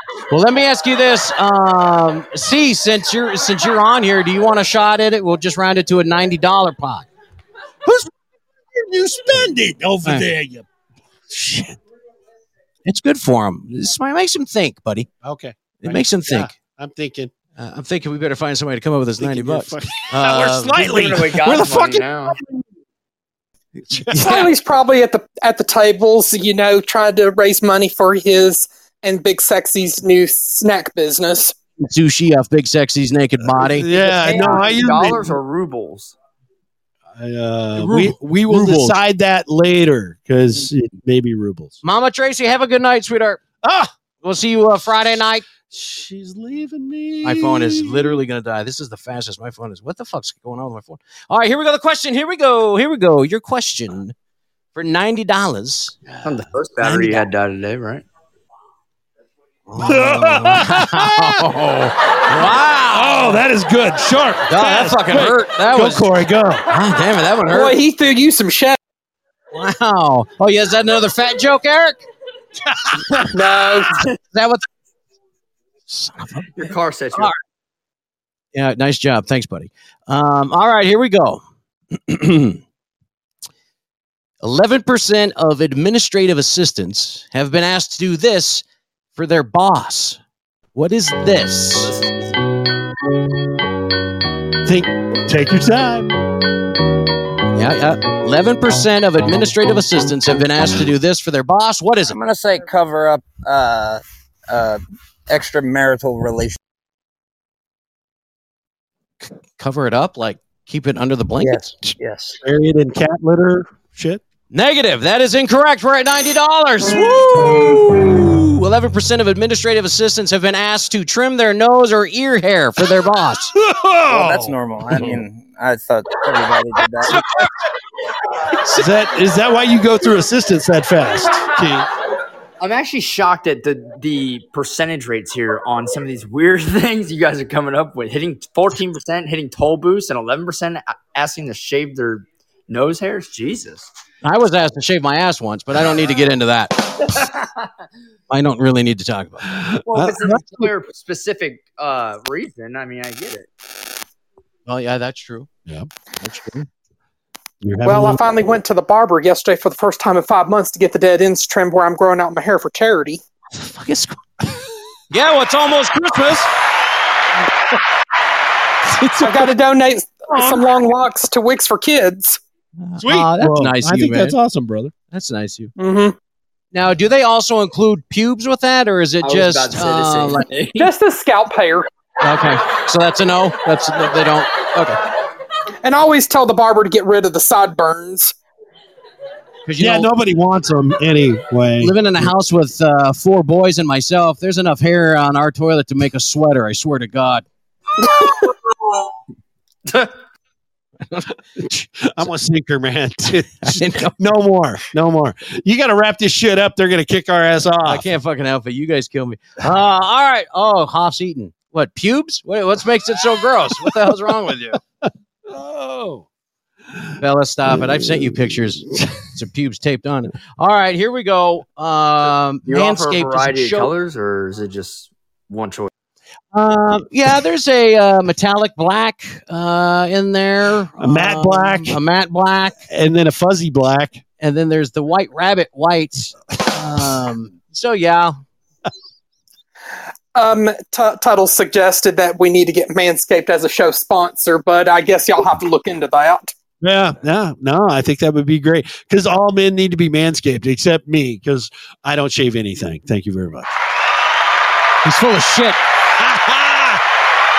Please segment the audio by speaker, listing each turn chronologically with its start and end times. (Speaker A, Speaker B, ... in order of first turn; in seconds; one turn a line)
Speaker A: 0.3-7.1
Speaker B: 7.8-8.1
Speaker B: 8.7-10.6
Speaker B: 11.3-11.8
Speaker A: 12.8-15.1
Speaker B: 15.2-17.3
Speaker A: 15.8-16.5
Speaker A: 17.6-20.9
Speaker B: 19.2-22.6
Speaker C: 20.7-22.3
Speaker B: 23.9-24.3
Speaker A: 24.1-24.5
Speaker D: 24.2-31.5
Speaker A: 31.8-34.1
Speaker B: 33.4-35.4
Speaker C: 33.9-36.1
Speaker B: 37.1-41.8
Speaker A: 37.8-39.0
Speaker A: 41.8-43.4
Speaker B: 43.6-43.9
Speaker A: 44.2-45.4
Speaker B: 45.7-48.2
Speaker A: 47.2-54.1
Speaker A: 54.7-56.0
Speaker B: 56.1-57.2
Speaker C: 56.2-58.0
Speaker A: 59.7-63.4
Speaker B: 59.8-61.4
Speaker B: 62.9-66.6
Speaker A: 64.5-66.0
Speaker A: 66.7-67.7
Speaker D: 67.5-68.8
Speaker A: 69.5-72.0
Speaker D: 73.3-73.9
Speaker A: 74.3-74.6
Speaker A: 75.9-77.3
Speaker C: 76.5-77.3
Speaker A: 78.5-81.4
Speaker A: 82.0-82.6
Speaker A: 84.4-90.2
Speaker A: 90.7-91.9
Speaker C: 91.8-92.4
Speaker B: 94.6-96.1
Speaker A: 97.5-102.2
Speaker E: 102.1-106.6
Speaker A: 109.2-111.8
Speaker E: 111.4-112.4
Speaker B: 112.4-114.2
Speaker A: 114.5-123.5
Speaker B: 123.5-125.1
Speaker E: 124.1-127.2
Speaker B: 128.7-131.9
Speaker C: 132.6-143.9
Speaker A: 144.2-146.9
Speaker C: 147.1-147.7
Speaker A: 148.3-149.4
Speaker B: 149.5-150.7
Speaker C: 149.9-153.5
Speaker A: 154.7-155.5
Speaker A: 156.2-156.7
Speaker B: 157.6-158.3
Speaker D: 157.8-163.2
Speaker A: 163.5-164.2
Speaker A: 165.1-166.5
Speaker A: 169.0-169.3
Speaker D: 169.2-172.4
Speaker B: 170.3-170.7
Speaker A: 172.8-174.4
Speaker B: 173.0-174.9
Speaker A: 175.1-175.7
Speaker D: 175.8-176.1
Speaker A: 176.7-180.5
Speaker C: 179.2-180.9
Speaker D: 180.8-181.9
Speaker A: 182.2-185.0
Speaker D: 185.8-188.3
Speaker A: 189.7-190.1
Speaker B: 189.8-192.2
Speaker A: 191.8-197.4
Speaker B: 201.6-208.1
Speaker A: 203.6-204.2
Speaker A: 207.8-214.8
Speaker B: 213.8-214.1
Speaker B: 215.5-216.2
Speaker A: 217.2-223.9
Speaker B: 217.9-218.3
Speaker C: 222.7-225.9
Speaker A: 226.5-232.8
Speaker B: 231.0-232.0
Speaker B: 232.9-234.2
Speaker A: 234.4-238.3
Speaker D: 240.3-246.5
Speaker B: 246.8-253.7
Speaker A: 255.0-255.8
Speaker B: 256.2-257.0